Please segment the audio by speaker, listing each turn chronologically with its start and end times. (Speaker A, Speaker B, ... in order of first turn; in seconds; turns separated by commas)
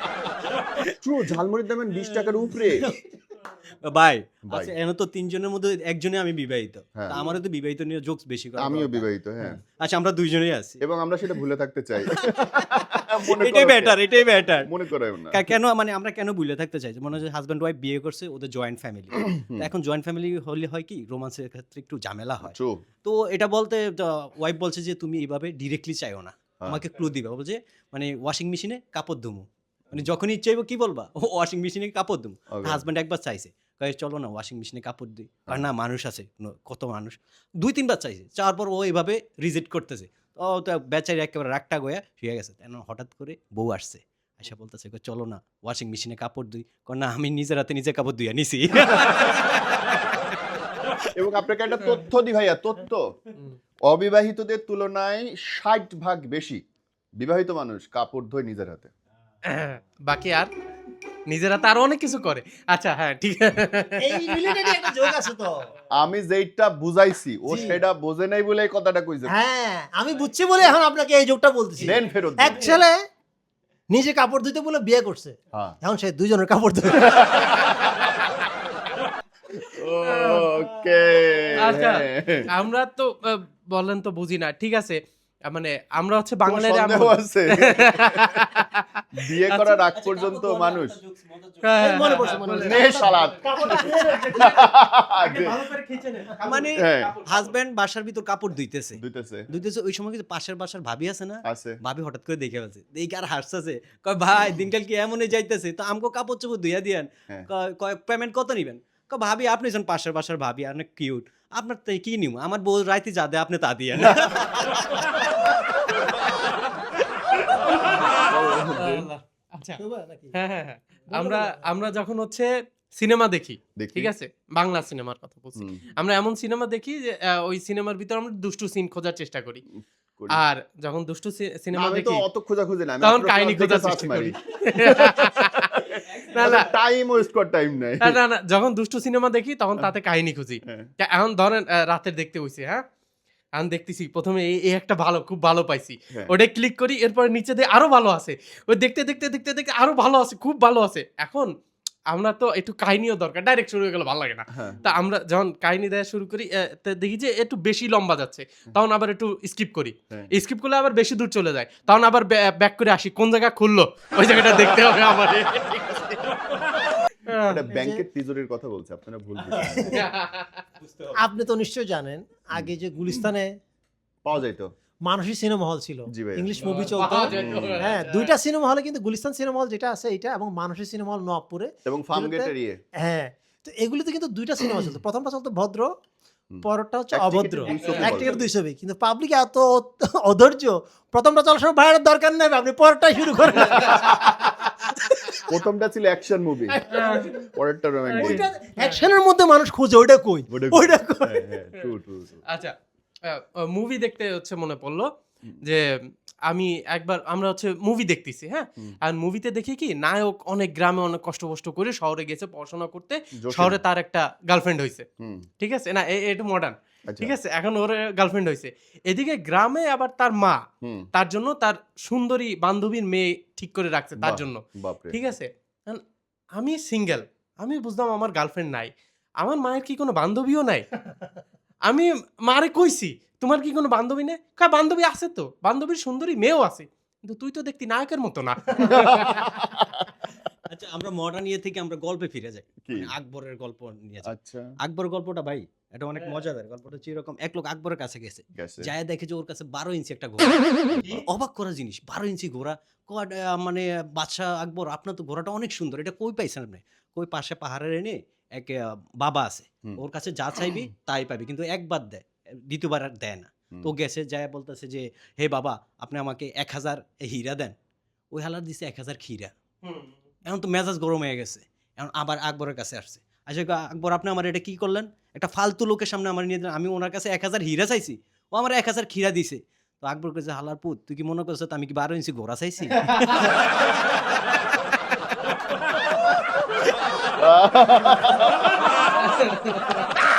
Speaker A: 1.0-2.9, Speaker B: 3.8-10.8, Speaker A: 8.6-9.6, Speaker A: 10.8-15.4, Speaker B: 12.1-14.7, Speaker B: 15.3-51.1, Speaker A: 19.3-19.7, Speaker A: 22.4-22.8, Speaker A: 32.5-32.9, Speaker A: 51.1-53.1, Speaker A: 53.9-56.6, Speaker A: 57.2-58.9, Speaker C: 59.4-60.5, Speaker C: 61.3-65.1, Speaker D: 64.0-65.7, Speaker A: 65.9-69.3, Speaker D: 67.5-67.8, Speaker D: 69.3-73.0, Speaker A: 71.8-72.8, Speaker D: 73.9-77.2, Speaker A: 76.9-77.9, Speaker A: 79.5-82.5, Speaker C: 80.0-80.5, Speaker C: 81.6-89.0, Speaker A: 86.5-88.5, Speaker A: 89.1-91.0, Speaker B: 89.5-92.2, Speaker C: 91.6-97.5, Speaker D: 91.8-94.2, Speaker A: 92.5-95.6, Speaker B: 96.4-115.0, Speaker A: 96.8-97.1, Speaker A: 99.0-99.5, Speaker A: 101.5-101.8, Speaker C: 117.3-118.0, Speaker A: 118.0-119.1, Speaker C: 118.8-119.8, Speaker D: 119.8-120.4, Speaker C: 120.3-129.6, Speaker D: 121.1-121.6, Speaker A: 123.8-124.1, Speaker A: 125.5-125.8, Speaker C: 130.3-132.2, Speaker A: 131.7-135.5, Speaker C: 133.0-136.7, Speaker B: 135.8-136.7, Speaker A: 136.4-138.2, Speaker C: 138.0-142.8, Speaker C: 143.6-151.5, Speaker C: 152.1-165.7, Speaker A: 154.5-154.9, Speaker A: 164.4-166.3, Speaker C: 167.2-167.6, Speaker A: 167.4-170.0, Speaker D: 167.7-168.0, Speaker B: 169.5-169.9, Speaker D: 169.7-170.0, Speaker C: 169.9-170.6, Speaker B: 170.8-171.1, Speaker D: 171.1-173.6, Speaker A: 172.5-173.2, Speaker A: 174.2-174.7, Speaker D: 175.0-185.9, Speaker A: 176.1-176.7, Speaker C: 176.6-178.3, Speaker A: 177.3-177.9, Speaker A: 181.8-182.8, Speaker A: 186.5-188.3, Speaker D: 186.6-194.7, Speaker B: 187.7-188.1, Speaker C: 193.7-195.4, Speaker A: 195.4-196.8, Speaker C: 196.8-197.4, Speaker A: 197.5-198.5, Speaker D: 198.1-201.5, Speaker C: 198.1-199.1, Speaker A: 200.5-202.4, Speaker C: 202.5-202.7, Speaker C: 203.2-205.1, Speaker C: 206.5-215.0, Speaker A: 213.4-213.8, Speaker A: 215.2-215.5, Speaker C: 215.6-220.6, Speaker A: 217.1-217.3, Speaker A: 220.8-221.1, Speaker C: 221.1-226.0, Speaker A: 224.2-225.2, Speaker C: 226.6-230.9, Speaker C: 231.8-239.4, Speaker A: 238.8-240.0, Speaker B: 240.7-244.3, Speaker A: 242.8-243.1, Speaker A: 244.2-244.7, Speaker B: 244.8-267.7, Speaker A: 248.5-248.9, Speaker B: 268.3-269.5, Speaker C: 269.8-270.1, Speaker B: 270.4-283.9, Speaker C: 283.0-283.6, Speaker A: 287.4-289.0, Speaker C: 289.0-290.2